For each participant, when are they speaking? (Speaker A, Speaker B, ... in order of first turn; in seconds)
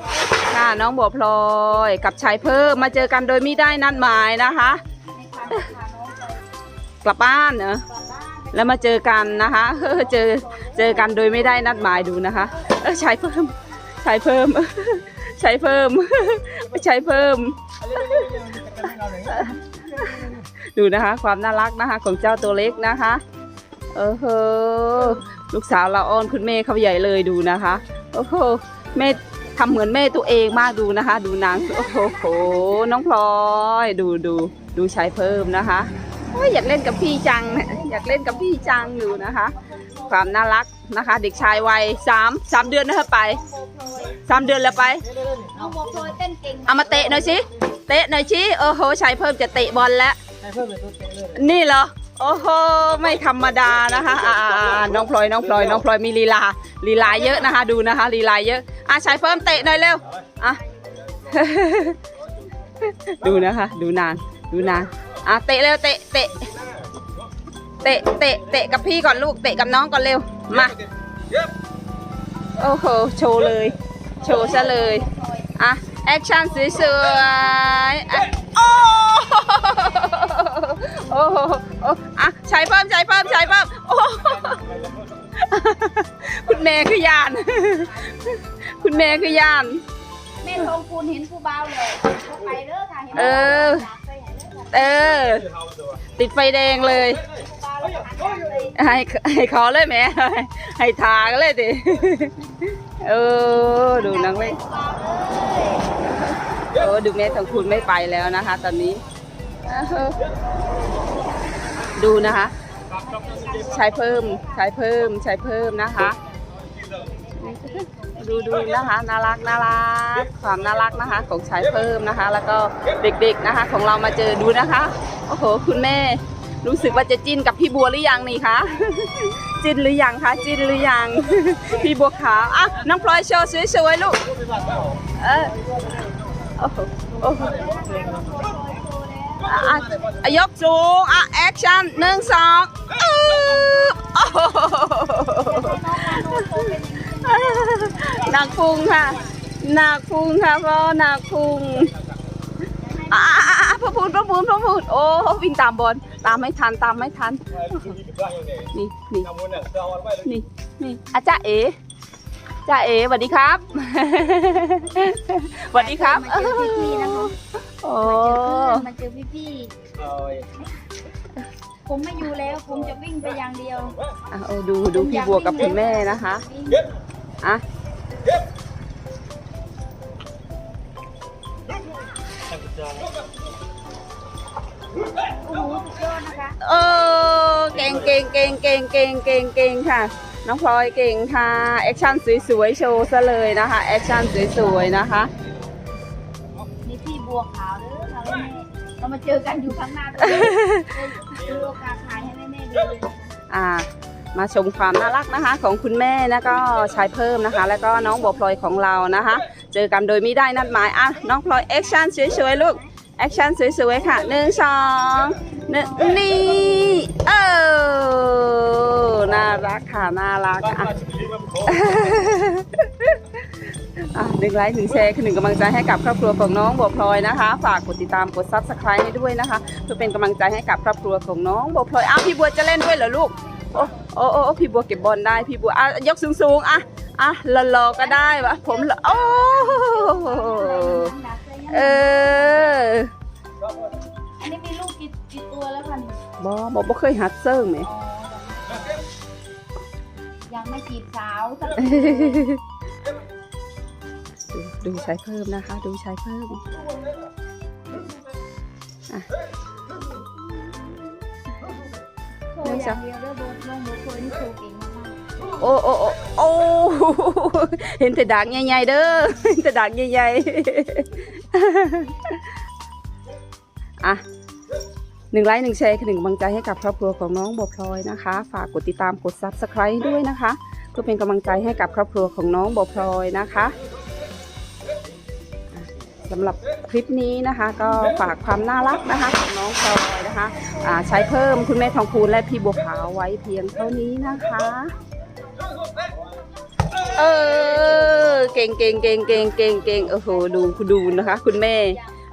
Speaker A: 0.4-4.8, 7.0-7.8, 8.5-20.1, 20.7-23.2, 23.9-39.5, 40.1-43.4, 44.2-45.0, 46.7-50.2, 51.3-60.6, 61.2-62.0, 62.8-66.5, 67.8-70.8, 72.6-75.0, 75.6-84.8, 85.3-89.8, 93.1-93.9, 94.7-95.5, 96.2-97.2, 98.7-104.6, 106.6-109.0, 109.7-110.2, 112.0-112.5, 113.6-116.2, 117.4-134.2, 135.0-135.6, 136.6-137.6, 139.4-151.9, 153.1-158.0, 158.7-159.3, 160.2-161.8, 162.7-168.8, 174.3-176.4, 186.6-195.3, 200.2-200.9, 203.5-221.0, 221.6-223.2, 224.1-241.1, 241.7-243.1, 246.4-247.9, 251.9-252.6, 254.5-256.6, 262.6-263.0, 265.6-272.4, 275.3-283.8, 285.7-294.9, 297.1-302.0
Speaker B: 5.1-6.4, 7.9-12.9, 37.4-40.3, 43.2-44.2, 45.5-47.4, 60.5-61.4, 74.2-75.5, 87.6-88.3, 90.4-95.0, 97.2-98.8, 103.9-106.0, 110.2-112.1, 112.9-114.7, 116.0-118.7, 137.2-139.8, 145.3-149.3, 152.8-154.0, 165.7-167.3, 168.0-169.8, 171.8-174.0, 174.9-176.9, 185.4-186.6, 196.8-203.3, 215.2-216.2, 238.0-242.7, 244.4-246.2, 247.8-249.1, 250.5-252.5, 262.5-265.2, 300.6-302.1
Speaker C: 17.8-19.4, 20.1-20.4, 50.4-51.3, 158.2-158.5, 159.4-160.1, 170.0-170.5, 182.6-183.1, 221.0-221.6